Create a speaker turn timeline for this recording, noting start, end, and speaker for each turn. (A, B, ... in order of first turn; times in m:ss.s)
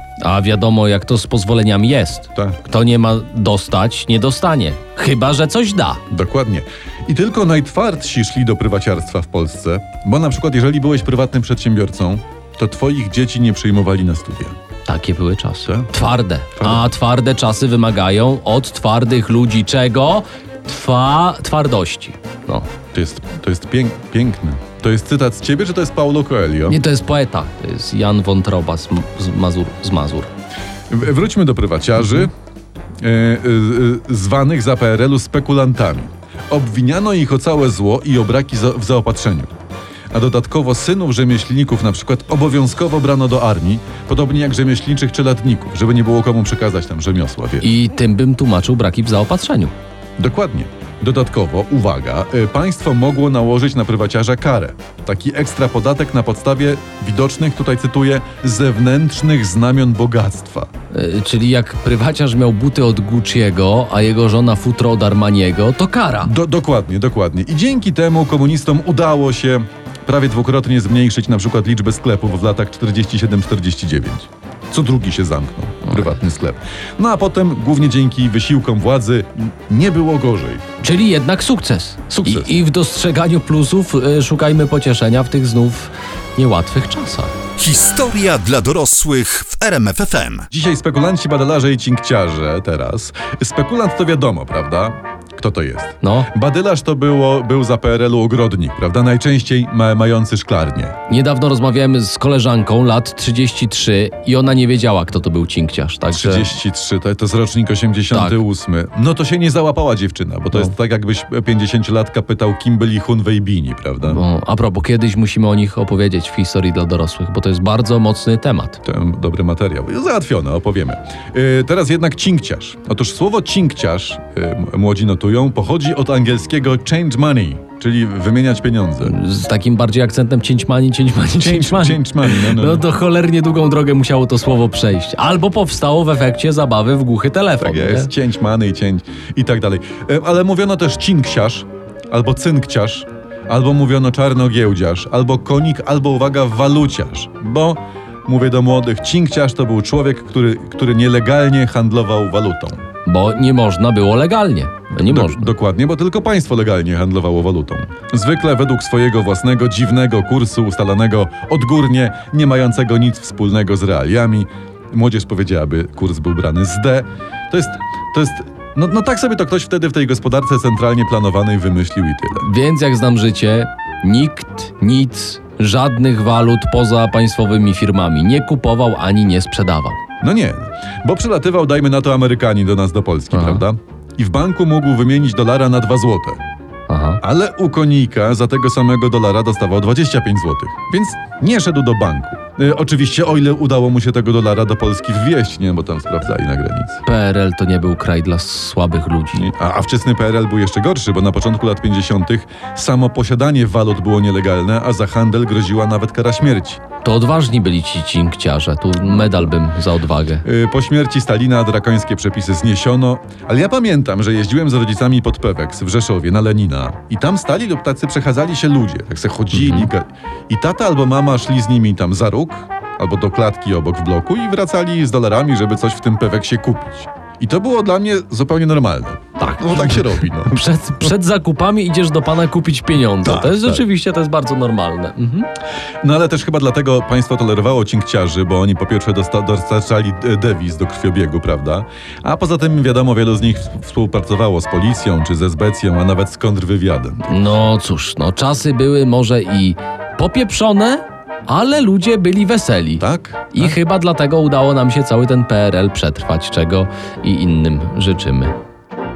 0:00.2-0:06.0 A
0:06.1-0:14.6 B
0:14.9-0:22.7 A
0:16.6-0:16.9 B
0:22.9-0:26.8 B
0:26.7-0:30.3 A
0:30.9-0:32.3 B
0:33.0-0:39.5 B
0:40.1-0:47.7 B
0:47.6-0:49.7 A
0:50.2-1:00.7 B
1:00.9-1:06.3 A
1:06.2-1:20.6 B
1:20.8-1:27.4 A
1:22.2-1:22.5 B
1:27.6-1:30.5 C
1:30.5-1:41.0 B
1:36.0-1:36.3 A
1:41.1-1:46.6 A
1:46.1-1:54.2 B
1:48.1-1:48.4 A
1:54.1-1:58.8 A
1:58.8-2:09.2 B
2:09.0-2:18.1 A
2:11.4-2:12.8 B
2:17.6-2:32.8 B
2:33.1-2:35.5 A
2:35.0-2:52.5 B
2:52.4-3:00.0 A
3:00.2-3:06.4 B
3:03.3-3:03.6 A
3:06.9-3:07.2 A
3:07.2-3:17.0 B
3:17.0-3:19.5 A
3:19.3-3:26.8 B
3:27.0-3:30.4 A
3:29.1-3:29.4 B
3:30.4-3:50.6 B
3:39.5-3:39.9 A
3:49.4-3:55.5 A
3:53.2-3:53.8 B
3:56.0-4:07.4 B
4:07.3-4:18.5 A
4:13.0-4:13.8 B